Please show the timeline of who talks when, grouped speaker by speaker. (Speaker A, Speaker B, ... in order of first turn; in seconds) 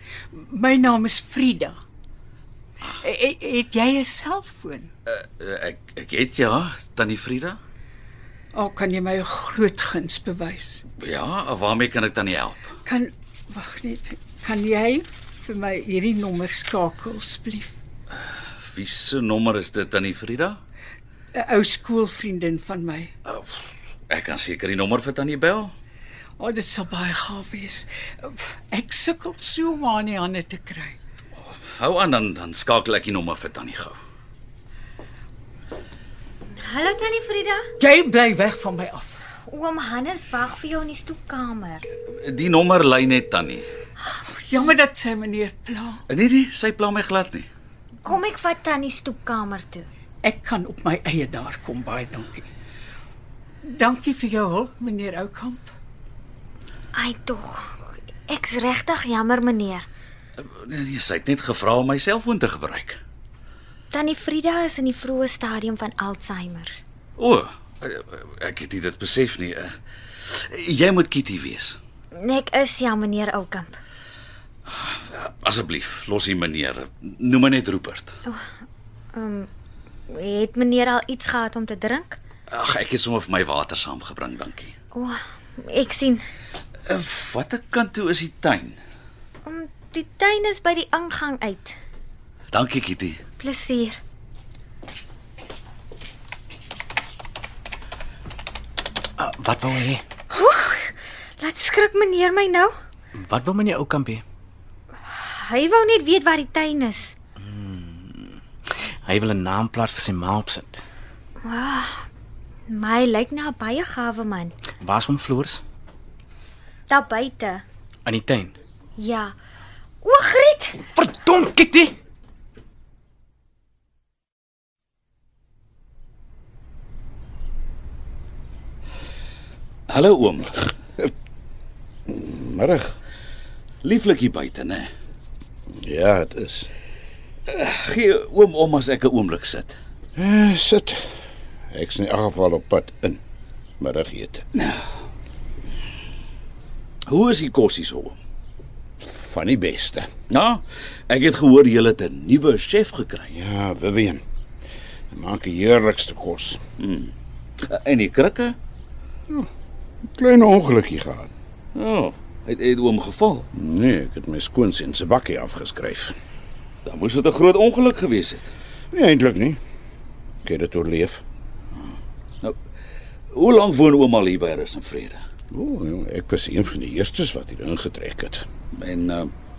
Speaker A: 0.3-1.8, 3.0-4.9, 8.5-10.8, 12.9-17.8, 21.4-23.1, 26.4-31.0, 37.8-39.2, 44.3-46.0, 50.2-52.5, 53.7-55.7
Speaker B: 5.1-7.6, 11.0-12.7, 18.6-20.6, 24.1-25.7, 31.4-34.0, 42.2-43.7, 46.1-47.5, 60.4-63.0, 67.2-69.7, 70.2-71.8, 74.7-78.1, 82.5-84.7, 86.9-88.8, 92.5-93.2, 129.9-130.6, 133.8-134.9, 137.5-139.8, 147.1-148.2, 150.3-153.3, 156.8-157.1, 157.7-158.6, 161.8-163.5, 166.8-168.5, 173.3-175.2, 178.7-179.3
Speaker C: 36.6-37.7, 39.5-41.8, 48.0-49.9, 57.0-59.9, 63.9-66.8, 72.1-73.8, 79.1-79.5, 80.1-82.2, 84.9-86.2, 89.4-91.8, 93.4-94.0, 100.3-102.7, 105.1-107.1, 111.4-112.0, 112.7-114.5, 116.9-117.7, 119.0-119.3, 120.0-120.9
Speaker D: 99.2-100.0, 103.2-104.2, 107.4-110.8, 114.8-115.6, 118.1-118.5, 121.0-122.0
Speaker E: 132.1-132.9, 135.7-136.7, 140.2-141.1, 141.7-143.2, 143.8-144.4, 149.0-150.1, 153.3-154.2, 155.1-156.6, 160.1-161.3, 163.5-166.2, 168.9-169.6, 170.4-171.2, 175.5-178.5